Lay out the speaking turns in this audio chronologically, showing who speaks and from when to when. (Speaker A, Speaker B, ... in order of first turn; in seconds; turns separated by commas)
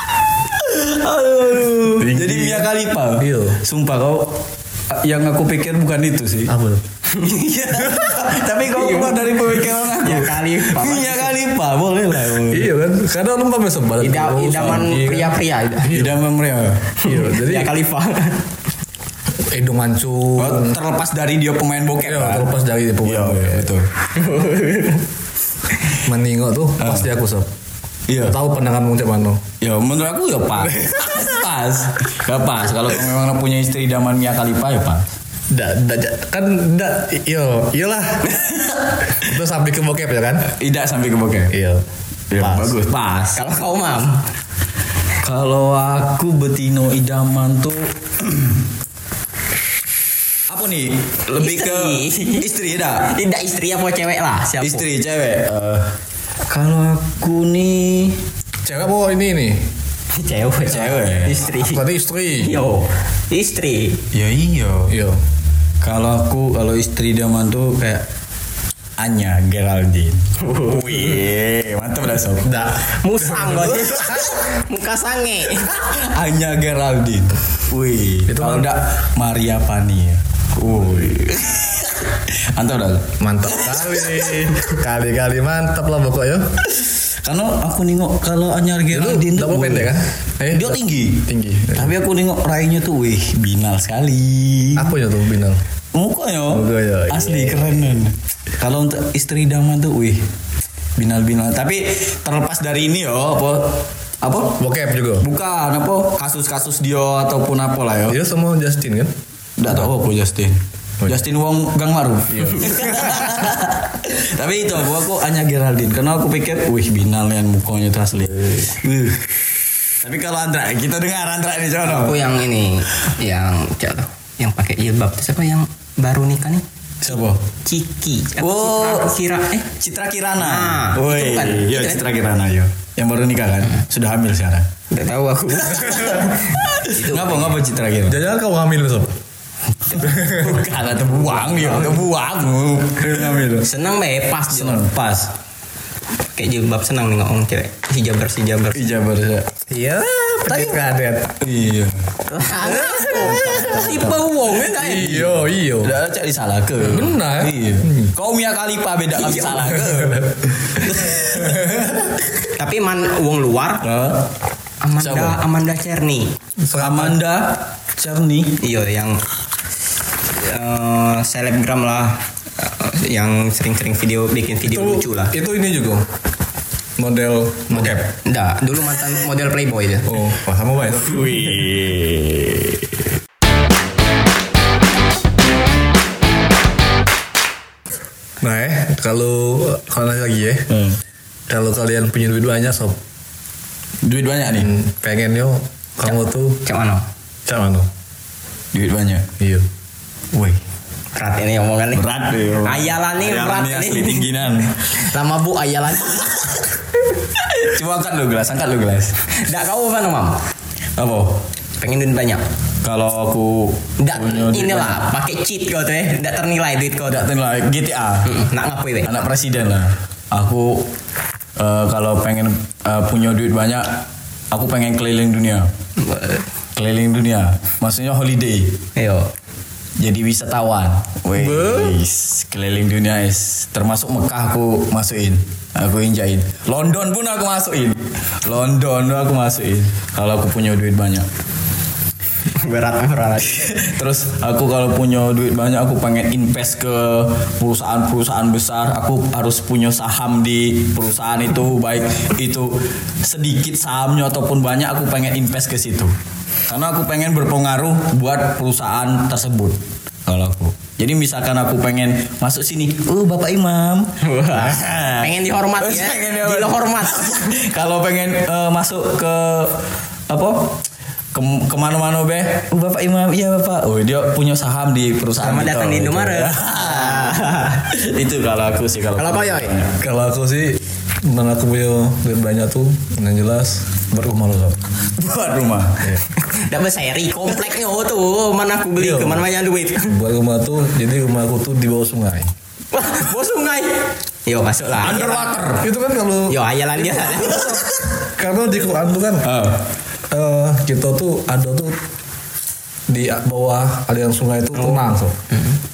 Speaker A: 0.5-6.5, Speaker B: 2.0-3.6, Speaker B: 6.5-6.8, Speaker C: 7.1-11.4, Speaker A: 7.2-12.7, Speaker B: 12.5-16.2, Speaker C: 14.0-15.9, Speaker A: 14.6-14.9, Speaker A: 15.9-16.9, Speaker C: 17.0-18.4, Speaker B: 17.0-17.7, Speaker B: 19.4-20.8, Speaker A: 20.4-22.5, Speaker B: 22.0-23.7, Speaker A: 23.0-23.9, Speaker C: 24.1-25.1, Speaker B: 26.0-27.5, Speaker A: 26.8-27.1, Speaker A: 28.1-28.4, Speaker B: 28.2-29.4, Speaker A: 29.6-35.0, Speaker B: 30.7-31.2, Speaker B: 35.5-38.4, Speaker B: 39.1-40.5, Speaker A: 40.5-41.5, Speaker B: 41.5-41.8, Speaker A: 42.3-43.4, Speaker B: 42.4-42.8, Speaker C: 43.3-44.2, Speaker A: 45.2-48.6, Speaker A: 50.5-53.1, Speaker C: 51.4-52.5, Speaker C: 53.0-54.8, Speaker A: 54.6-55.9, Speaker A: 56.5-58.2, Speaker B: 58.6-59.7, Speaker C: 60.1-61.8, Speaker A: 60.6-61.4, Speaker B: 61.5-62.6, Speaker C: 62.4-64.0, Speaker A: 64.1-64.9, Speaker B: 64.9-65.2, Speaker A: 65.8-68.0, Speaker A: 69.0-72.5, Speaker C: 70.4-71.2, Speaker B: 72.4-74.3, Speaker C: 72.9-75.7, Speaker A: 75.7-83.1, Speaker B: 78.3-78.7, Speaker B: 83.2-86.5, Speaker A: 83.6-84.5, Speaker A: 86.7-90.0, Speaker B: 88.9-91.9, Speaker A: 90.5-94.9, Speaker B: 94.8-95.6, Speaker A: 95.9-100.2, Speaker B: 96.5-97.8, Speaker A: 101.0-104.6, Speaker B: 104.6-105.3, Speaker A: 105.2-108.2, Speaker B: 108.1-109.1, Speaker A: 109.6-119.2, Speaker B: 112.4-113.4, Speaker A: 120.0-122.2, Speaker C: 121.8-129.7, Speaker A: 127.0-127.4, Speaker A: 128.4-134.7, Speaker C: 130.4-132.0, Speaker C: 134.9-137.6, Speaker A: 136.5-138.2, Speaker B: 138.1-139.1, Speaker A: 139.9-143.7, Speaker B: 140.0-140.6, Speaker C: 143.6-144.8, Speaker A: 144.5-145.3, Speaker C: 146.3-148.8, Speaker A: 148.7-149.5, Speaker B: 149.7-151.3, Speaker A: 151.4-152.0, Speaker C: 152.2-155.2, Speaker B: 152.7-154.2, Speaker A: 153.3-154.1, Speaker B: 154.7-155.9, Speaker A: 154.8-162.1, Speaker B: 156.8-158.1, Speaker C: 159.2-159.6, Speaker B: 159.7-160.3, Speaker C: 162.4-163.9, Speaker A: 163.8-164.3, Speaker C: 164.8-166.3, Speaker A: 165.0-165.4, Speaker B: 166.6-167.2, Speaker A: 166.8-168.6, Speaker C: 168.6-169.2, Speaker C: 170.4-175.3, Speaker B: 174.7-176.1, Speaker B: 177.0-178.1, Speaker C: 177.7-180.1, Speaker B: 180.1-181.7, Speaker A: 181.0-183.0, Speaker B: 188.4-190.8, Speaker A: 190.7-191.0, Speaker B: 191.5-193.0, Speaker A: 194.0-194.7, Speaker B: 194.6-196.6, Speaker C: 196.6-197.1, Speaker B: 197.4-197.9, Speaker A: 198.7-199.3, Speaker B: 199.4-199.7, Speaker A: 200.3-200.6, Speaker C: 201.1-202.1, Speaker A: 201.9-204.8, Speaker C: 202.6-204.3, Speaker C: 204.9-206.8, Speaker A: 207.5-209.2, Speaker C: 209.3-210.4, Speaker A: 210.9-211.4, Speaker C: 211.8-212.4, Speaker A: 212.8-215.0, Speaker C: 214.0-217.3, Speaker A: 217.1-218.4, Speaker C: 218.2-219.1, Speaker A: 219.0-220.9, Speaker A: 221.6-225.7, Speaker C: 226.0-226.4, Speaker A: 226.7-228.8, Speaker C: 228.9-229.3, Speaker A: 230.0-241.3, Speaker B: 231.4-231.9, Speaker C: 242.5-243.8, Speaker A: 243.5-256.1, Speaker A: 256.7-270.8, Speaker C: 264.2-267.6, Speaker A: 271.3-280.0, Speaker C: 275.4-277.9, Speaker C: 279.1-279.8, Speaker B: 280.0-284.8, Speaker A: 285.1-286.1, Speaker C: 286.4-290.1, Speaker B: 289.0-289.5, Speaker B: 290.1-292.5, Speaker C: 292.9-295.7, Speaker A: 295.0-295.9, Speaker B: 295.8-299.5, Speaker C: 296.5-297.9, Speaker A: 299.4-299.9, Speaker B: 300.3-302.0, Speaker B: 303.1-305.4